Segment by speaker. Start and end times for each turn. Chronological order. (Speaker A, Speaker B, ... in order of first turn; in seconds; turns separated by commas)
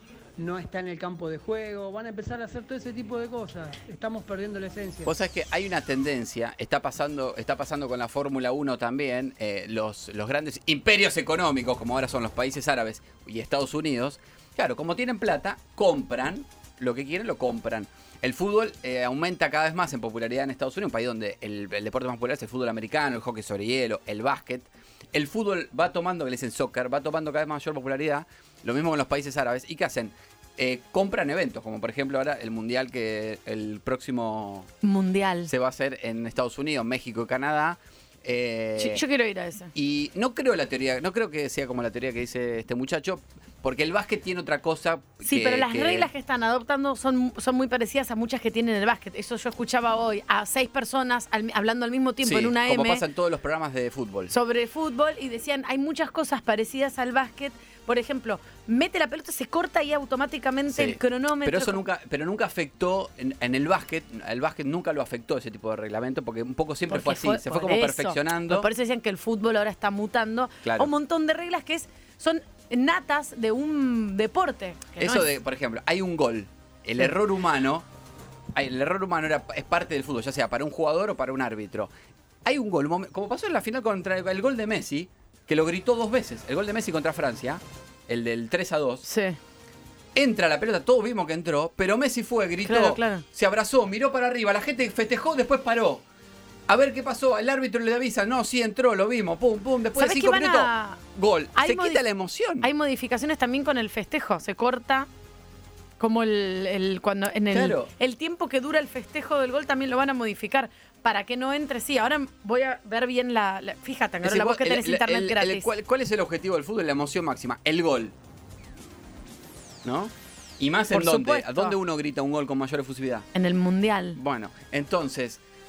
Speaker A: 0.4-5.1, Speaker B: 5.0-34.7, Speaker C: 34.8-35.5, Speaker B: 35.5-39.0, Speaker C: 38.8-39.7, Speaker B: 39.7-46.1, Speaker C: 45.2-53.0, Speaker B: 52.2-54.3, Speaker C: 54.3-61.8, Speaker B: 60.7-68.7, Speaker C: 66.9-75.3, Speaker B: 70.6-70.9, Speaker B: 75.0-77.8, Speaker B: 78.5-81.9, Speaker B: 82.4-89.0, Speaker C: 89.0-89.4, Speaker B: 90.1-96.0, Speaker C: 92.7-93.2, Speaker B: 96.7-102.7, Speaker C: 100.0-101.0, Speaker C: 101.5-102.0, Speaker C: 102.6-105.1, Speaker C: 106.0-115.7, Speaker B: 107.5-107.9, Speaker B: 114.2-118.1, Speaker B: 119.8-123.2, Speaker C: 120.9-121.7, Speaker C: 123.3-124.2, Speaker B: 124.1-125.4